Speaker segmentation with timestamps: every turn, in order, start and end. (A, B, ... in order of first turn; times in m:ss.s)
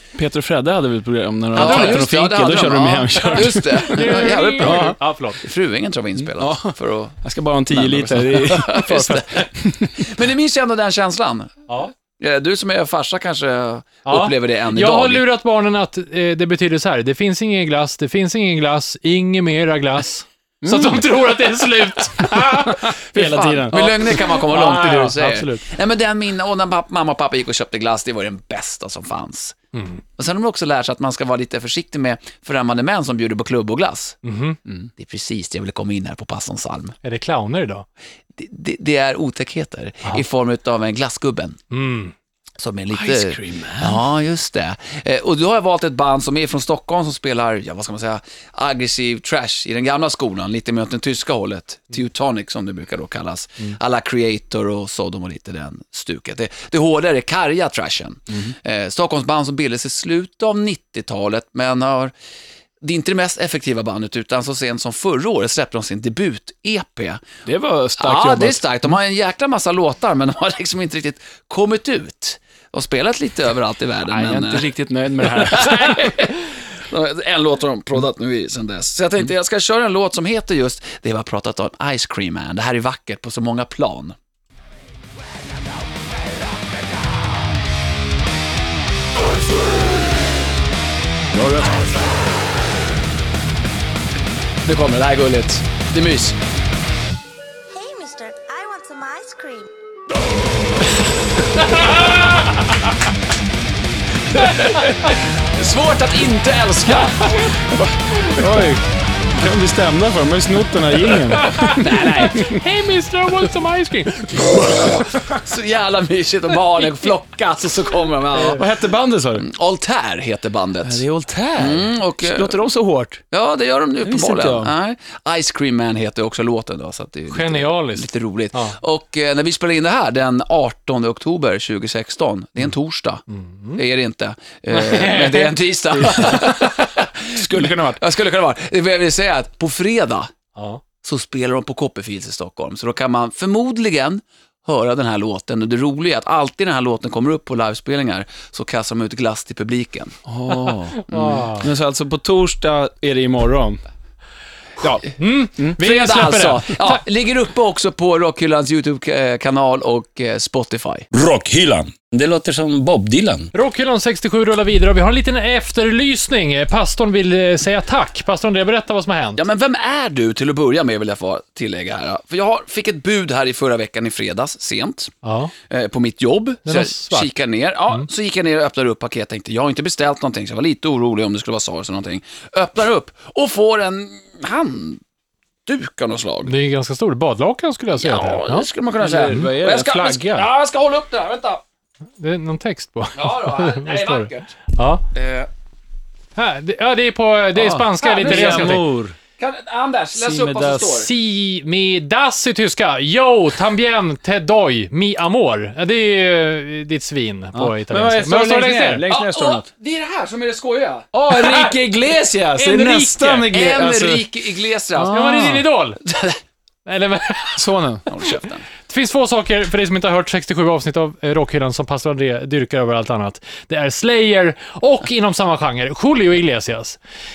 0:00.2-0:05.0 A
0:01.5-0:09.4 B
0:01.6-0:02.0 C
0:03.2-0:05.4 C
0:06.2-0:10.1 A
0:10.0-0:11.7 B
0:12.2-0:15.2 B
0:14.1-0:25.7 C
0:20.6-0:21.1 A
0:22.2-0:24.4 A
0:23.7-0:29.6 B
0:29.7-0:30.0 C
0:30.2-0:34.2 B
0:34.2-0:34.6 C
0:35.0-0:36.9 B
0:37.0-0:37.8 C
0:38.4-0:41.6 B
0:41.7-0:42.1 C
0:42.6-1:02.1 B
0:42.9-0:44.0 A
0:58.3-0:58.6 A
1:02.8-1:07.2 B
1:07.5-1:08.6 A
1:08.0-1:14.7 B
1:14.1-1:16.0 A
1:15.4-1:24.2 B
1:31.4-1:31.6 A
1:34.6-1:36.4 B
1:37.7-1:39.7 D
1:44.3-1:47.8 B
1:48.2-1:52.6 A
1:51.3-1:54.9 C
1:51.7-1:52.5 B
1:54.8-1:58.7 B
1:58.5-1:59.5 A
1:59.4-2:01.0 B
2:00.8-2:03.2 A
2:01.6-2:02.6 B
2:03.3-2:13.2 B
2:04.0-2:04.7 A
2:07.3-2:08.8 C
2:13.3-2:13.8 C
2:13.8-2:20.3 B
2:14.7-2:15.5 C
2:16.0-2:16.6 A
2:16.1-2:16.4 C
2:17.3-2:18.0 A
2:20.6-2:20.8 C
2:21.0-2:30.2 B
2:30.3-2:33.8 A
2:31.0-2:31.7 C
2:34.8-2:35.0 A
2:35.2-2:37.0 C
2:35.8-2:41.1 B
2:41.1-2:43.5 E
2:43.5-2:49.4 C
2:49.4-2:55.1 B
2:55.2-2:55.5 C
2:55.7-3:05.0 B
2:56.7-2:57.3 C
3:05.7-3:06.5 B
3:06.4-3:08.7 C
3:08.0-3:11.6 B
3:09.0-3:10.5 A
3:12.2-3:15.0 C
3:13.2-3:14.6 B
3:15.1-3:15.5 B
3:16.4-3:18.8 C
3:17.6-3:19.2 A
3:18.0-3:18.8 B
3:19.4-3:21.1 B
3:20.2-3:20.9 A
3:20.8-3:29.0 C
3:27.5-3:29.7 A
3:29.1-3:31.1 B
3:31.1-3:34.3 A
3:32.6-3:33.5 C
3:33.4-3:35.4 B
3:35.0-3:35.6 A
3:35.1-3:36.0 C
3:36.0-3:36.4 B
3:36.9-3:37.6 C
3:37.6-3:38.1 A
3:38.1-3:38.6 B
3:38.9-3:47.0 C